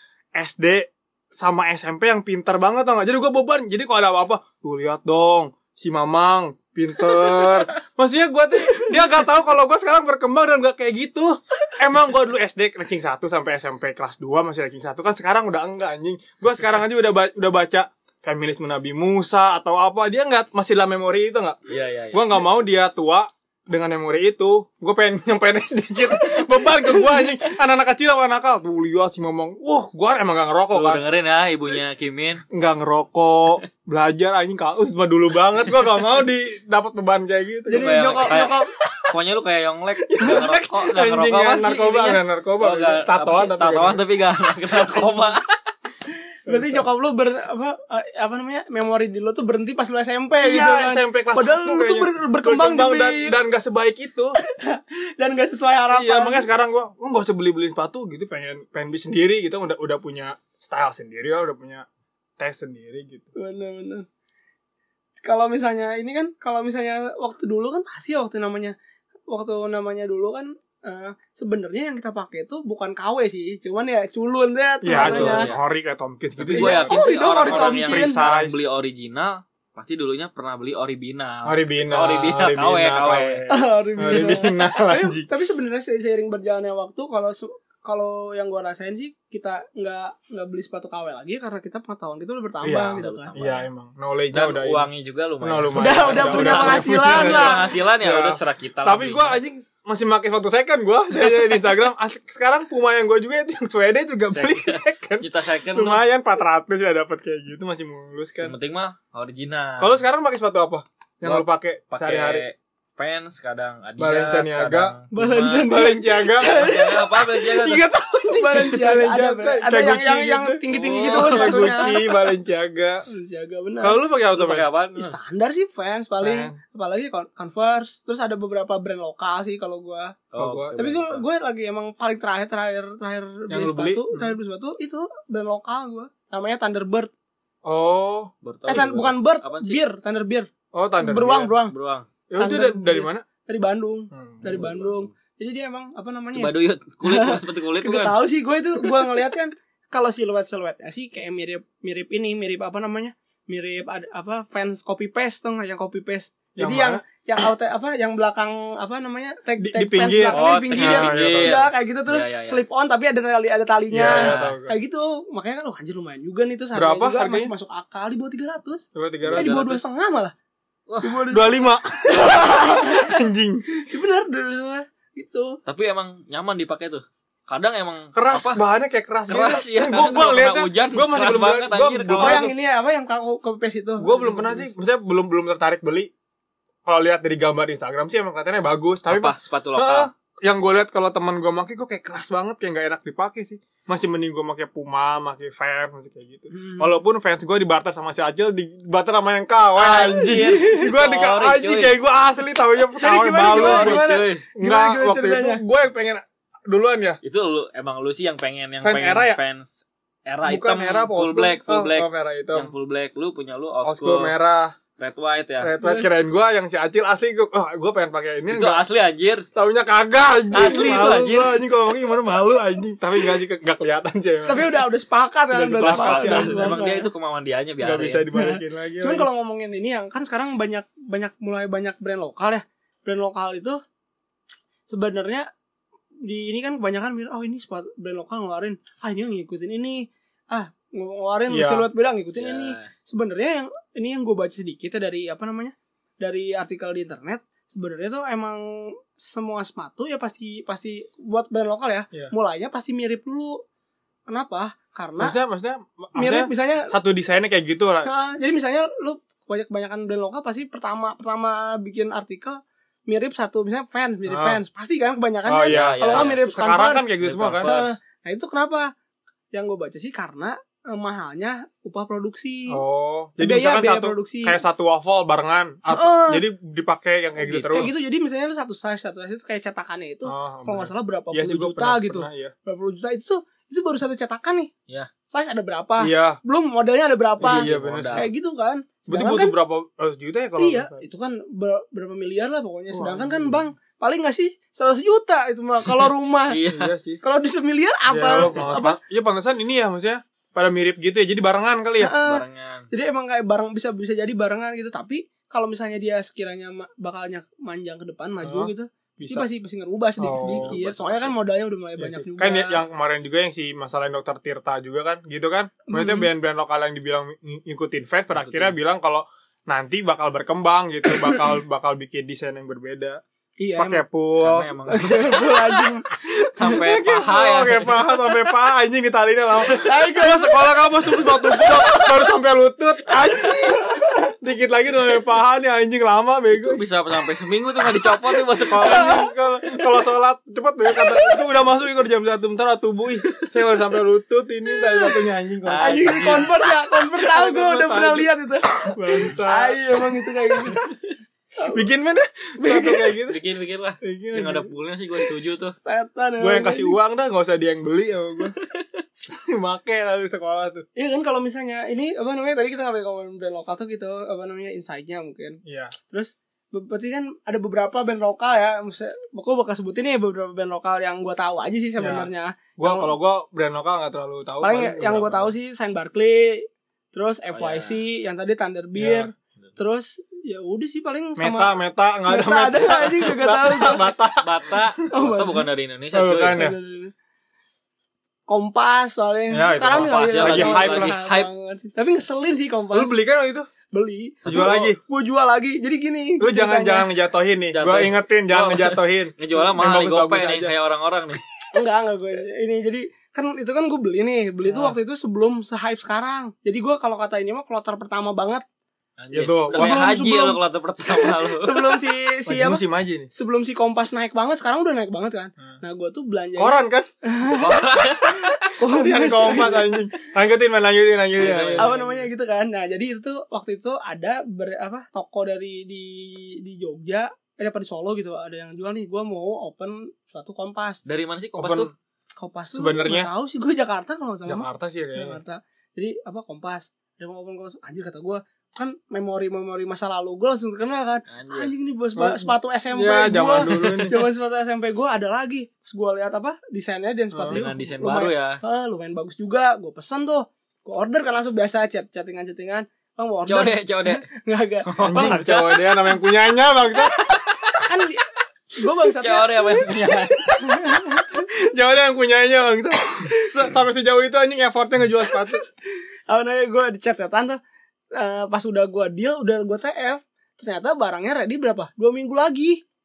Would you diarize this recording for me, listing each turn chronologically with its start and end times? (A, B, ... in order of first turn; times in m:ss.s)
0:00.4-0:21.6 A
0:21.7-0:22.4 B
0:22.1-0:31.0 A
0:30.7-0:32.4 B
0:32.5-0:38.3 A
0:37.7-0:38.7 C
0:37.8-0:45.5 B
0:40.1-0:44.0 A
0:46.5-0:46.9 A
0:46.5-0:53.3 C
0:50.4-0:54.4 A
0:54.5-0:56.5 C
0:55.9-1:01.9 A
1:02.4-1:03.3 A
1:03.4-1:04.1 C
1:05.2-1:08.8 C
1:09.3-1:15.5 C
1:14.8-1:18.6 A
1:14.9-1:15.6 B
1:16.4-1:23.4 B
1:16.5-1:18.2 C
1:21.4-1:25.3 A
1:23.5-1:33.3 C
1:32.6-1:34.9 A
1:32.9-1:33.7 B
1:34.3-1:39.4 B
1:35.4-1:48.6 A
1:35.8-1:37.6 C
1:44.3-1:46.0 B
1:48.4-1:50.0 B
1:49.8-1:52.4 A
1:51.2-1:55.8 B
1:54.0-1:55.0 A
1:55.1-1:57.3 C
1:55.6-1:56.7 A
1:56.4-1:57.9 B
1:57.4-2:03.0 A
1:58.3-2:02.1 C
2:00.8-2:01.8 B
2:03.1-2:04.0 C
2:03.8-2:04.7 A
2:04.4-2:05.2 B
2:05.0-2:10.2 C
2:06.2-2:06.6 A
2:10.3-2:11.2 B
2:10.4-2:11.0 A
2:10.8-2:17.1 C
2:13.5-2:14.4 A
2:17.6-2:18.3 A
2:18.4-2:19.8 B
2:18.7-2:20.5 C
2:20.7-2:21.5 A
2:21.0-2:21.7 C
2:21.7-2:22.1 B
2:22.3-2:23.3 A
2:22.4-2:26.5 C
2:24.1-2:24.8 A
2:24.5-2:25.0 B
2:26.3-2:28.2 B
2:27.0-2:50.3 C
2:36.6-2:37.0 A
2:39.6-2:41.7 A
2:40.3-2:42.6 B
2:43.9-2:44.8 A
2:44.0-2:44.6 B
2:46.8-2:47.5 A
2:49.0-2:49.5 A
2:49.3-2:49.8 B
2:50.9-2:51.2 B
2:51.0-2:53.2 C
2:51.3-2:53.6 A
2:53.8-2:55.6 C
2:55.7-2:58.6 B
2:58.1-3:02.5 A
2:59.3-3:02.5 B
3:02.2-3:04.7 C
3:04.0-3:06.1 A
3:06.9-3:27.2 A
3:09.1-3:10.1 B
3:16.5-3:16.9 C
3:19.8-3:22.0 B
3:20.3-3:20.8 C
3:23.0-3:25.6 C
3:23.4-3:24.4 B
3:27.2-3:34.3 B
3:28.8-3:29.4 A
3:30.4-3:32.7 A
3:33.8-3:34.8 A
3:35.0-3:35.7 B
3:35.6-3:38.8 A
3:35.8-3:36.1 C
3:38.5-3:39.5 B
3:39.6-3:44.8 A
3:40.5-3:41.6 B
3:44.4-3:47.1 C
3:45.5-3:46.8 A
3:45.8-3:48.2 B
3:47.8-3:49.3 A
3:48.4-3:53.8 C
3:54.9-3:55.5 C
3:56.2-4:13.6 C
4:01.5-4:01.9 A
4:02.4-4:02.9 B
4:14.3-4:15.4 C
4:15.2-4:18.1 A
4:16.2-4:16.9 C
4:18.0-4:27.1 C
4:24.3-4:24.6 A
4:25.5-4:27.7 A
4:25.7-4:26.5 B
4:27.2-4:27.9 B
4:27.6-4:28.9 C
4:29.5-4:32.8 C
4:32.7-4:37.9 A
4:33.4-4:34.6 C
4:35.9-4:36.4 C
4:37.4-4:37.9 B
4:37.7-4:44.7 C
4:40.3-4:42.5 A
4:45.3-4:49.5 C
4:46.0-4:46.4 A
4:47.4-4:48.3 A
4:47.4-4:48.3 B
4:49.1-4:51.0 A
4:50.6-4:56.6 C
4:52.9-4:53.6 A
4:56.5-4:56.9 B
4:56.7-4:57.2 A
4:57.2-4:59.0 C
4:58.1-5:02.2 A
5:02.0-5:12.8 C
5:02.2-5:02.9 B
5:08.4-5:09.5 A
5:10.2-5:10.8 A
5:10.3-5:11.4 B
5:12.0-5:23.2 A
5:15.9-5:16.3 C
5:18.4-5:18.8 B
5:23.6-5:24.0 C
5:23.8-5:24.7 A
5:24.4-5:25.8 B
5:24.9-5:26.1 C
5:26.6-5:28.1 B
5:26.6-5:36.8 A
5:29.7-5:32.1 C
5:36.5-5:39.3 B
5:38.7-5:46.5 A
5:45.6-5:46.5 B
5:45.8-5:50.9 C
5:47.1-5:48.3 A
5:48.9-5:49.8 A
5:51.7-5:53.4 A
5:52.6-5:53.1 C
5:53.3-5:55.7 B
5:54.0-5:54.7 A
5:55.8-5:57.0 C
5:56.4-5:58.6 A
5:59.3-6:00.8 A
6:01.0-6:13.1 C
6:05.6-6:05.9 A
6:12.0-6:15.5 A
6:14.6-6:21.7 C
6:17.5-6:18.0 B
6:19.0-6:19.3 A
6:21.4-6:24.7 A
6:22.3-6:24.1 C
6:24.4-6:26.6 B
6:25.1-6:25.7 C
6:26.1-6:26.8 A
6:26.5-6:27.1 C
6:28.5-6:33.1 C
6:29.5-6:31.2 A
6:29.9-6:31.5 B
6:32.9-6:33.7 A
6:33.9-6:37.1 C
6:34.5-6:35.0 A
6:36.4-6:40.7 A
6:37.7-6:41.4 B
6:41.7-6:48.6 C
6:49.2-6:52.0 B
6:49.3-6:50.0 A
6:49.7-6:52.8 C
6:52.5-6:53.3 A
6:53.3-6:57.8 C
6:56.6-6:57.1 A
6:57.5-6:58.7 B
6:58.8-7:00.0 C
6:58.8-7:02.2 A
7:01.4-7:02.1 B
7:01.8-7:11.0 C
7:11.1-7:11.9 B
7:11.6-7:11.9 A
7:12.4-7:35.6 C
7:12.7-7:13.3 A
7:14.5-7:15.4 A
7:21.3-7:21.7 B
7:22.2-7:24.2 A
7:27.3-7:27.6 A
7:27.5-7:28.6 B
7:33.5-7:34.2 B
7:34.8-7:35.9 B
7:35.0-7:37.2 A
7:37.2-7:37.8 B
7:37.8-7:39.9 C
7:39.1-7:40.6 B
7:40.6-7:41.4 C
7:41.5-7:45.6 A
7:46.3-7:47.6 C
7:48.1-7:52.8 C